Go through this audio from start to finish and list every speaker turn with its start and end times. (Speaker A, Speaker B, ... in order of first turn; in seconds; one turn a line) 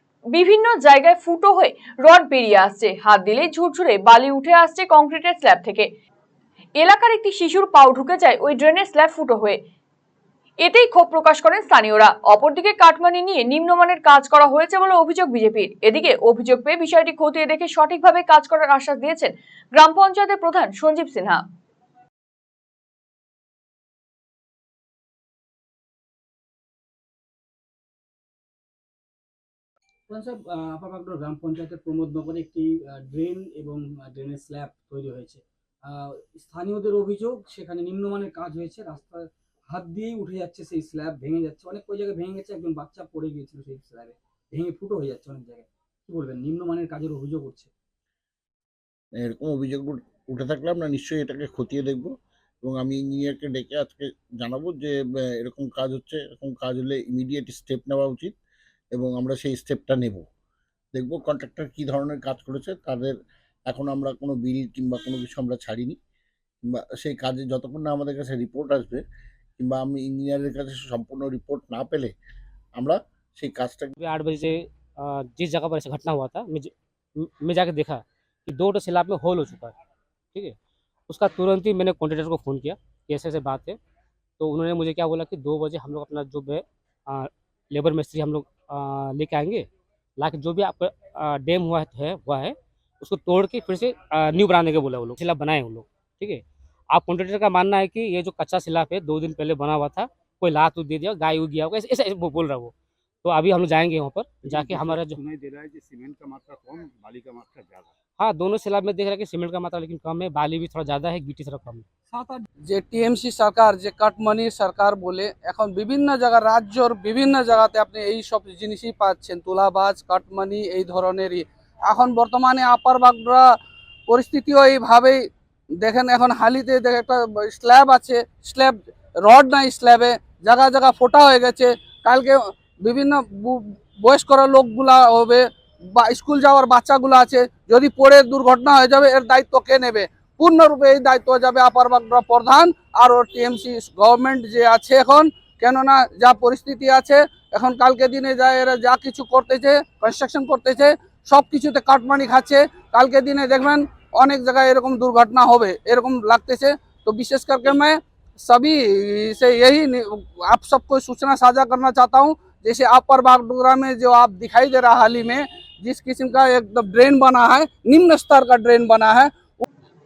Speaker A: 0.3-5.9
Speaker A: 6.8-9.6
Speaker A: 10.6-21.4
Speaker B: 30.1-47.7
Speaker C: 49.2-52.1
Speaker C: 52.6-58.3
Speaker C: 58.9-60.2
Speaker C: 60.9-63.1
Speaker C: 63.7-66.0
Speaker C: 66.7-69.0
Speaker C: 69.6-72.1
Speaker C: 72.8-73.9
Speaker D: 74.0-79.7
Speaker D: 81.1-83.8
Speaker D: 84.4-102.7
Speaker D: 103.2-105.2
Speaker E: 104.4-107.9
Speaker D: 108.2-111.8
Speaker F: 112.7-123.5
Speaker F: 124.1-125.2
Speaker F: 125.8-135.4
Speaker F: 135.9-169.6